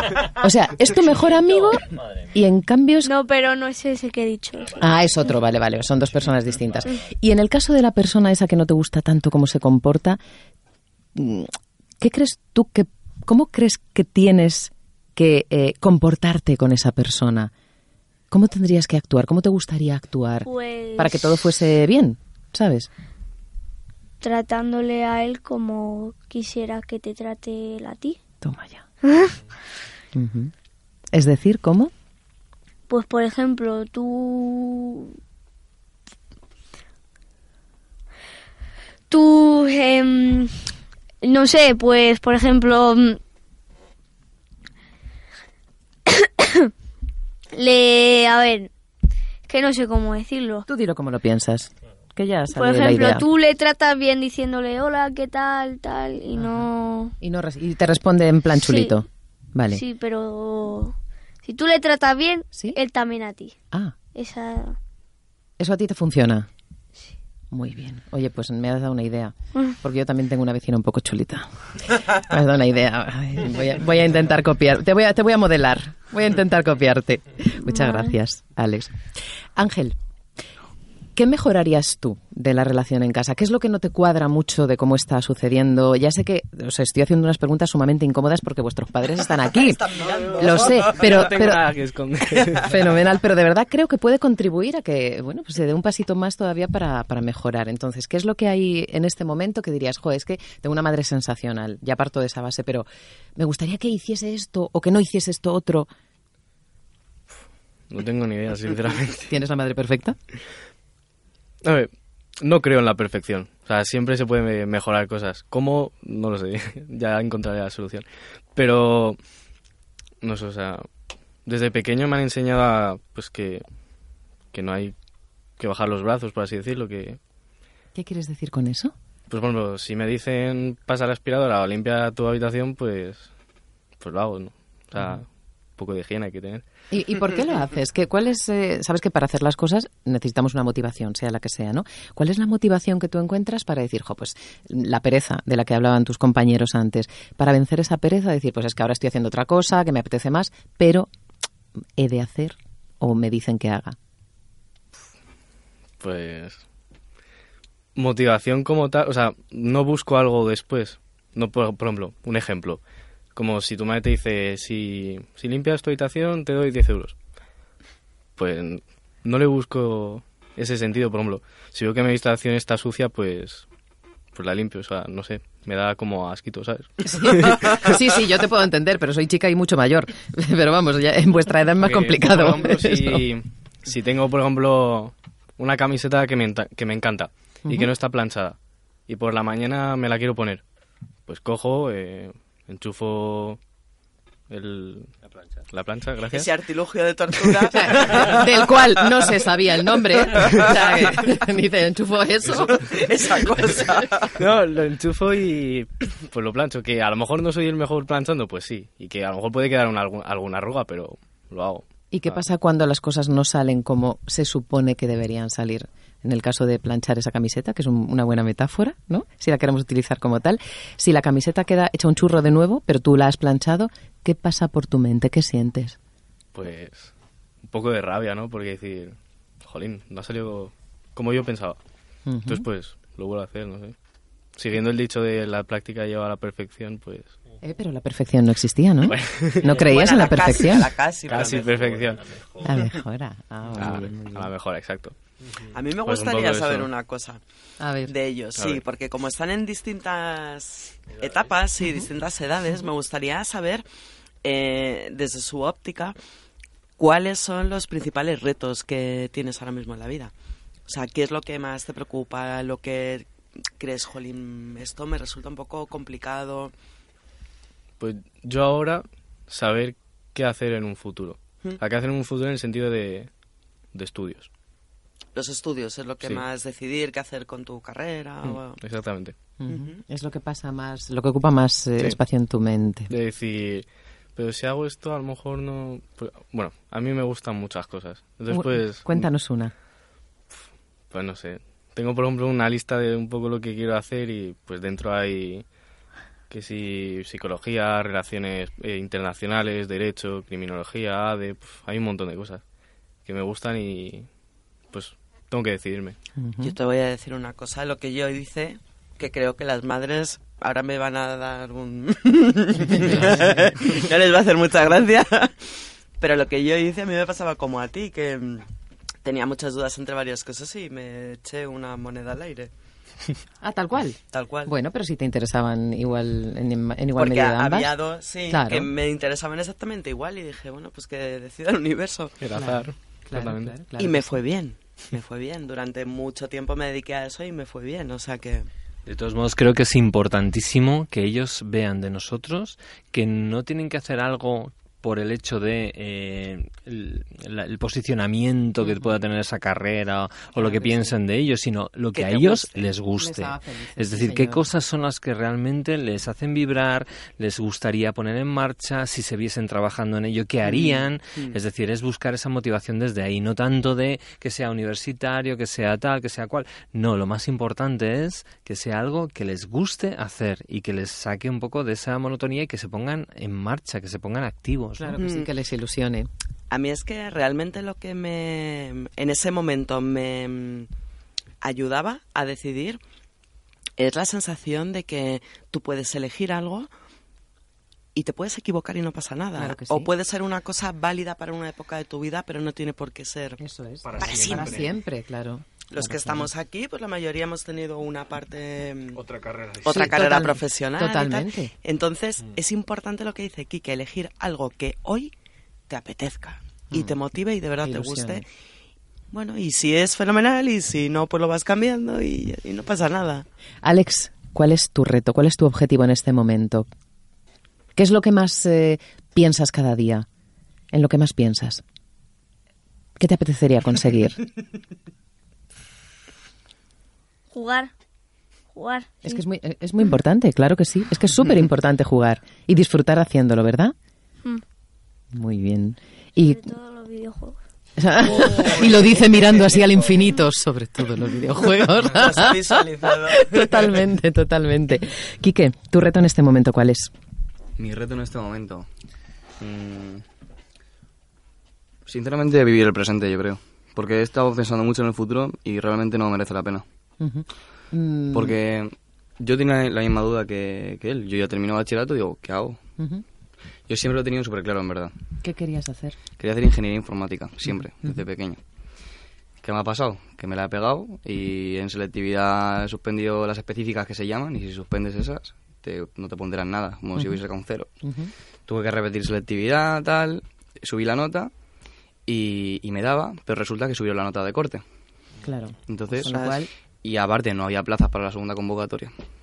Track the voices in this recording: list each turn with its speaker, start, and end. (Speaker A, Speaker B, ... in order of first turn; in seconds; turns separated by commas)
Speaker A: 0.2-3.1, Speaker B: 3.0-4.9, Speaker A: 4.8-10.2, Speaker A: 11.1-17.5, Speaker A: 18.3-22.9, Speaker B: 20.4-21.5, Speaker B: 24.2-28.2, Speaker A: 28.4-28.8, Speaker B: 29.0-29.4, Speaker A: 30.1-30.5, Speaker A: 31.1-31.9, Speaker B: 32.9-35.1, Speaker B: 39.1-40.7, Speaker B: 41.2-43.2, Speaker B: 46.0-46.7, Speaker B: 47.5-48.7, Speaker B: 49.5-50.6, Speaker A: 50.7-53.2, Speaker B: 52.5-57.1, Speaker A: 56.4-56.7, Speaker A: 57.2-59.8, Speaker B: 58.5-59.0, Speaker B: 59.7-63.5, Speaker B: 64.1-64.8, Speaker A: 65.6-66.5, Speaker A: 67.5-79.0, Speaker B: 77.7-78.1, Speaker A: 79.5-80.0, Speaker A: 81.2-89.8, Speaker C: 89.6-90.9, Speaker D: 90.0-92.9, Speaker A: 90.4-91.6, Speaker A: 92.6-105.9, Speaker D: 107.9-109.3, Speaker A: 109.3-110.2, Speaker D: 111.6-119.2, Speaker D: 120.2-120.9, Speaker D: 121.4-123.6, Speaker D: 124.5-124.9, Speaker D: 125.6-127.2, Speaker A: 127.9-128.9, Speaker D: 129.3-133.3, Speaker D: 134.0-136.6, Speaker A: 136.9-151.1, Speaker A: 152.0-154.0, Speaker D: 156.0-156.6, Speaker D: 157.9-162.8, Speaker D: 163.3-167.2, Speaker D: 168.4-173.7, Speaker D: 174.3-177.9, Speaker A: 177.1-183.2, Speaker D: 181.8-190.6, Speaker A: 187.6-187.9, Speaker D: 191.2-193.6, Speaker D: 194.5-195.1, Speaker D: 195.7-196.5, Speaker C: 196.3-199.3, Speaker A: 197.7-202.9, Speaker C: 200.3-201.1, Speaker C: 202.5-204.3, Speaker D: 204.4-212.4, Speaker A: 212.1-226.0, Speaker D: 226.5-231.8, Speaker A: 232.3-232.7, Speaker D: 232.5-233.9, Speaker D: 234.5-237.3, Speaker A: 237.6-240.9, Speaker D: 239.1-239.7, Speaker C: 239.7-241.9, Speaker D: 241.3-242.5, Speaker A: 242.6-244.5, Speaker D: 243.8-245.1, Speaker C: 245.7-247.4, Speaker D: 246.0-246.9, Speaker A: 247.8-248.1, Speaker C: 248.1-253.8, Speaker D: 248.6-248.8, Speaker C: 254.4-256.1, Speaker C: 257.0-260.3, Speaker C: 260.9-266.7, Speaker D: 268.0-273.3, Speaker D: 273.9-274.5, Speaker C: 275.3-278.8, Speaker D: 278.5-279.4, Speaker A: 279.6-283.1, Speaker C: 279.7-279.9, Speaker D: 283.1-289.3, Speaker A: 288.5-289.7, Speaker D: 291.1-295.6, Speaker D: 296.5-302.6, Speaker D: 303.2-304.3, Speaker D: 304.9-306.2, Speaker A: 306.4-306.7, Speaker C: 306.6-318.7, Speaker A: 313.1-313.5, Speaker C: 319.2-322.7, Speaker A: 323.6-327.9, Speaker C: 324.3-324.7, Speaker C: 327.1-332.4, Speaker A: 328.5-328.9, Speaker D: 332.4-333.8, Speaker A: 332.5-334.4, Speaker C: 334.0-338.7, Speaker E: 339.1-375.1, Speaker A: 350.6-351.1, Speaker C: 352.1-352.9, Speaker A: 353.1-354.6, Speaker A: 375.0-376.3, Speaker C: 375.2-375.5, Speaker C: 376.7-380.9, Speaker C: 381.6-383.0, Speaker C: 384.0-386.9, Speaker C: 388.1-393.6, Speaker A: 389.6-390.1, Speaker A: 393.6-396.5, Speaker C: 394.2-394.9, Speaker C: 395.9-405.3, Speaker A: 399.8-401.7, Speaker C: 405.9-408.4, Speaker A: 407.8-408.4, Speaker C: 409.3-413.4, Speaker A: 413.8-416.9, Speaker A: 417.9-420.2, Speaker A: 420.9-421.8, Speaker A: 423.2-424.4, Speaker B: 427.5-427.9, Speaker B: 428.7-429.4, Speaker A: 429.2-433.9, Speaker A: 435.3-436.6, Speaker B: 436.4-437.6, Speaker A: 438.0-447.1, Speaker C: 442.0-443.9, Speaker F: 447.8-448.9, Speaker F: 449.6-450.2, Speaker F: 452.1-456.8, Speaker A: 457.2-458.6, Speaker F: 458.3-462.8, Speaker A: 463.0-463.2, Speaker F: 463.9-465.1, Speaker A: 465.4-466.2, Speaker F: 466.4-468.6, Speaker F: 469.6-477.9, Speaker A: 478.0-478.3, Speaker F: 478.7-481.5, Speaker F: 482.2-484.8, Speaker A: 485.4-486.7, Speaker F: 485.9-489.1